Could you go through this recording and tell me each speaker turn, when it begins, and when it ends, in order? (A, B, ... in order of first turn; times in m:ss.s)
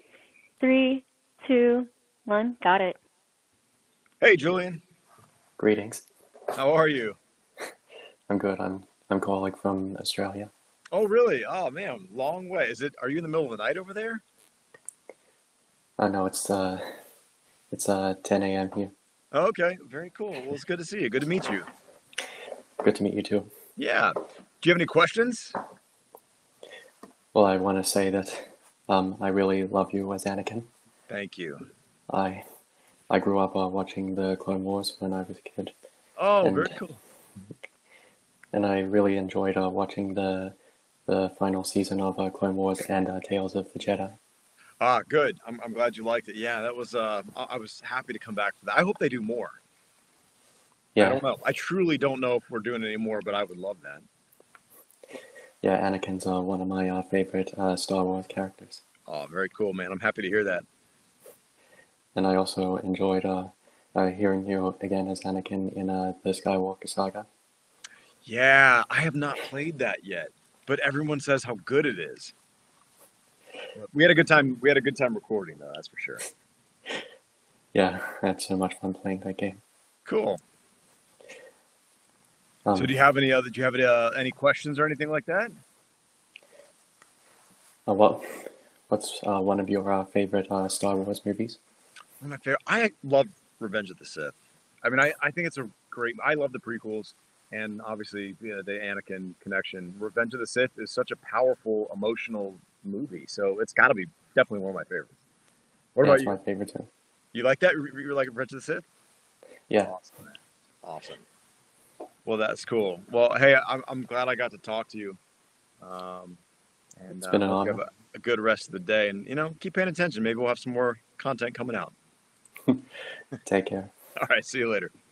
0:00.6-0:03.0 A
0:04.2-0:04.8 B
0:05.6-0:06.1 C
0:06.6-0:07.2 B
0:08.3-0:10.5 C
0:10.9-0:14.2 B
0:16.0-0:16.9 C
0:17.7-0:18.9 C
0:19.3-0:21.7 B
0:22.8-0:23.5 C
0:23.8-0:25.6 B
0:27.3-0:30.7 C
0:31.1-0:31.7 B
0:32.1-0:32.4 C
0:33.1-0:35.7 C
0:36.2-0:37.0 B
0:36.4-0:36.8 C
0:38.5-0:40.6 C
0:41.1-0:44.2 C
0:44.8-0:49.6 B
0:51.0-0:51.2 C
0:51.0-0:54.1 B
0:55.6-0:58.8 C
0:59.1-1:00.7 B
1:02.2-1:07.3 C
1:08.2-1:12.3 B
1:13.7-1:16.2 B
1:17.7-1:19.6 C
1:20.0-1:20.4 B
1:22.7-1:23.0 C
1:22.8-1:25.6 B
1:27.9-1:31.6 C
1:32.2-1:45.1 B
1:46.0-1:46.4 B
1:46.0-1:46.9 C
1:47.3-1:48.9 B
1:49.8-1:51.3 B
1:52.2-1:55.2 B
1:55.8-1:56.4 B
1:57.0-2:02.0 B
1:57.1-1:57.8 C
2:03.4-2:03.9 C
2:04.2-2:04.9 B